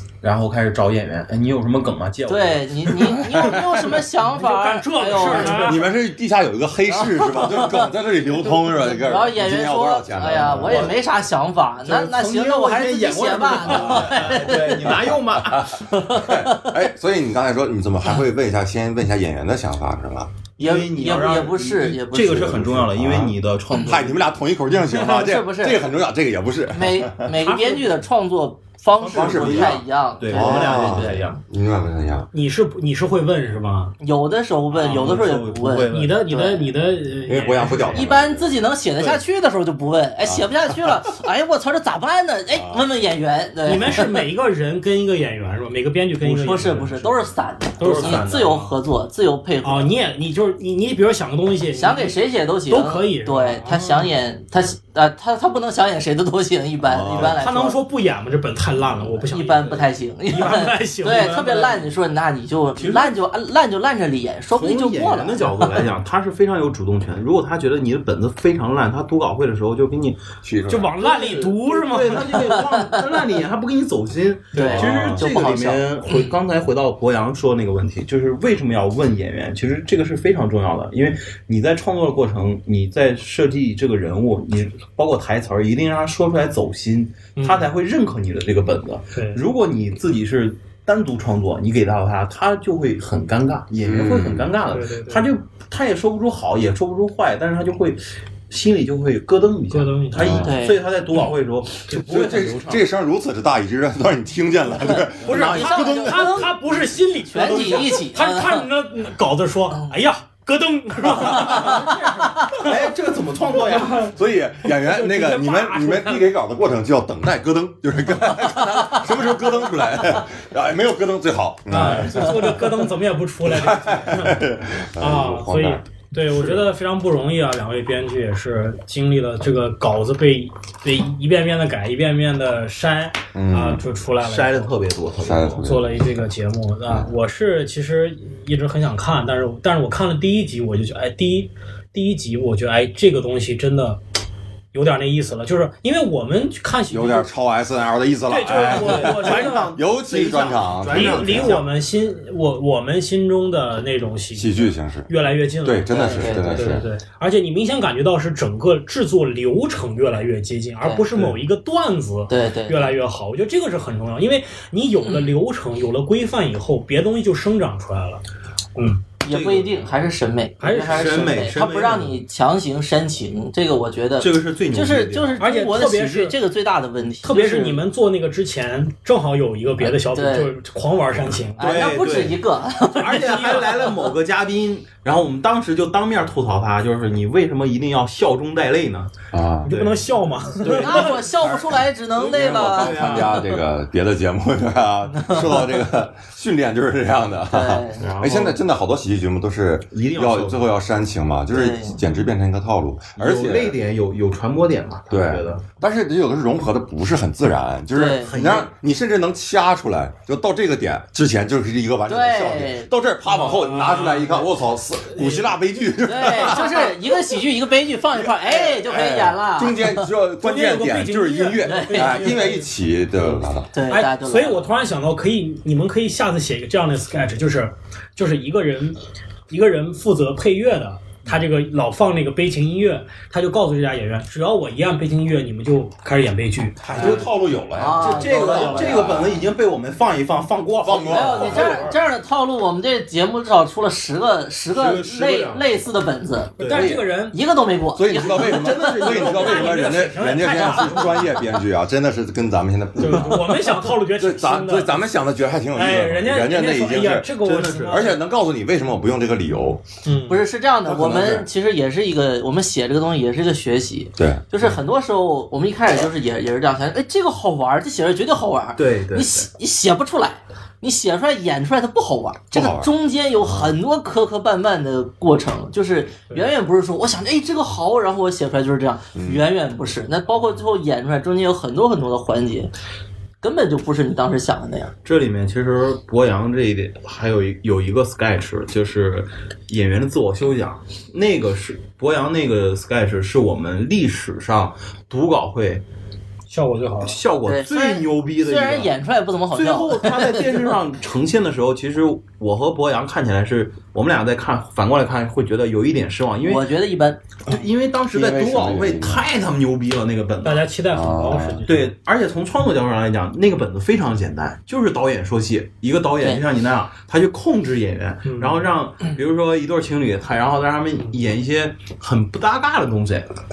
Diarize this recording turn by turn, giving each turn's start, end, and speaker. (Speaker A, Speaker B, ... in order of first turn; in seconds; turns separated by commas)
Speaker A: 0.2-3.2, Speaker B: 2.3-5.8, Speaker C: 3.2-4.0, Speaker D: 4.2-5.9, Speaker C: 5.4-11.0, Speaker B: 6.9-7.9, Speaker B: 8.8-15.1, Speaker A: 10.4-11.0, Speaker A: 11.8-15.8, Speaker C: 13.7-14.4, Speaker C: 15.0-20.3, Speaker B: 15.9-16.8, Speaker A: 20.6-24.3, Speaker B: 20.6-22.6, Speaker C: 22.3-27.3, Speaker B: 24.9-25.9, Speaker B: 26.7-31.3, Speaker D: 27.5-27.8, Speaker A: 29.0-31.4, Speaker C: 29.1-32.3, Speaker D: 32.3-34.0, Speaker B: 34.0-36.7, Speaker A: 34.7-36.2, Speaker D: 35.9-38.1, Speaker C: 37.3-38.6, Speaker B: 37.9-44.2, Speaker C: 40.2-41.1, Speaker C: 42.5-42.9, Speaker D: 43.6-47.2, Speaker B: 46.2-49.9, Speaker A: 47.8-48.7, Speaker D: 47.8-48.6, Speaker D: 49.6-52.2, Speaker B: 51.8-57.8, Speaker D: 52.7-54.1, Speaker C: 56.8-57.4, Speaker D: 57.2-61.9, Speaker B: 59.3-65.8, Speaker A: 62.8-63.2, Speaker A: 64.5-70.2, Speaker C: 70.4-70.9, Speaker D: 70.7-72.6, Speaker A: 71.0-102.8, Speaker B: 72.5-73.0, Speaker B: 74.5-76.3, Speaker D: 74.5-75.3, Speaker C: 74.7-75.0, Speaker D: 87.4-87.7, Speaker D: 89.2-89.4, Speaker C: 93.8-94.5, Speaker D: 94.7-95.3, Speaker D: 99.7-100.5, Speaker C: 100.1-100.6, Speaker B: 100.4-100.8, Speaker C: 101.9-106.5, Speaker B: 105.0-106.5, Speaker D: 105.2-112.8, Speaker B: 107.3-108.7, Speaker B: 109.7-110.0, Speaker C: 111.1-111.8, Speaker B: 111.3-112.6, Speaker A: 112.5-114.1, Speaker D: 113.5-114.1, Speaker C: 113.9-122.7, Speaker D: 114.6-116.3, Speaker D: 121.7-134.7, Speaker C: 123.4-125.8, Speaker C: 133.3-133.8, Speaker A: 134.2-135.6, Speaker C: 135.2-136.0, Speaker D: 135.6-144.0, Speaker D: 144.7-147.3, Speaker C: 146.9-151.6, Speaker D: 148.3-149.8, Speaker A: 148.5-151.7, Speaker D: 150.9-168.2, Speaker C: 154.3-155.1, Speaker C: 155.6-156.9, Speaker B: 155.9-156.8, Speaker A: 161.1-161.4, Speaker B: 162.3-162.9, Speaker D: 168.8-169.0, Speaker B: 169.2-177.8, Speaker A: 169.3-169.8, Speaker D: 170.6-171.4, Speaker A: 170.7-172.2, Speaker A: 174.2-175.4, Speaker D: 175.4-176.4, Speaker D: 177.2-181.9, Speaker B: 179.8-180.5, Speaker B: 181.6-183.5, Speaker A: 181.6-182.4, Speaker D: 182.9-183.9, Speaker A: 183.0-191.3, Speaker C: 189.3-189.7, Speaker D: 189.7-191.2, Speaker B: 190.7-193.5, Speaker C: 191.4-203.8, Speaker A: 192.2-193.4, Speaker B: 195.1-195.7, Speaker B: 197.5-198.0, Speaker A: 198.0-198.6, Speaker A: 199.9-200.7, Speaker B: 201.5-201.9, Speaker A: 203.2-205.7, Speaker C: 205.1-217.2, Speaker B: 207.9-208.3, Speaker A: 208.1-208.7, Speaker B: 212.1-212.9, Speaker D: 213.3-214.5, Speaker D: 215.2-215.6, Speaker B: 216.0-220.1, Speaker C: 218.1-223.8, Speaker D: 220.4-222.7, Speaker B: 221.6-222.4, Speaker B: 223.7-224.6, Speaker D: 223.9-237.3, Speaker C: 236.8-239.4, Speaker A: 236.9-237.3, Speaker B: 237.8-239.2, Speaker A: 237.9-242.0, Speaker C: 240.8-241.9, Speaker B: 241.0-246.6, Speaker A: 244.7-245.7, Speaker A: 246.6-247.0, Speaker D: 246.6-247.4, Speaker C: 246.7-247.1, Speaker B: 247.3-249.2, Speaker C: 247.9-257.3, Speaker A: 248.2-250.0, Speaker D: 249.1-251.4, Speaker A: 250.8-251.2, Speaker D: 253.0-255.0, Speaker D: 255.8-258.2, Speaker A: 257.4-258.1, Speaker C: 257.9-259.9, Speaker D: 260.1-260.4, Speaker B: 260.3-282.7, Speaker C: 260.9-261.5, Speaker C: 264.2-264.4, Speaker A: 268.8-269.5, Speaker C: 272.5-272.9, Speaker C: 279.1-279.4, Speaker B: 283.4-284.9, Speaker A: 285.1-295.8, Speaker D: 296.5-297.2, Speaker A: 297.0-298.9, Speaker B: 297.4-300.6, Speaker A: 299.5-306.7, Speaker B: 306.4-307.5, Speaker A: 307.4-310.7, Speaker C: 308.1-309.3, Speaker D: 310.4-311.9, Speaker C: 310.9-311.7, Speaker A: 311.6-323.3, Speaker D: 318.3-318.7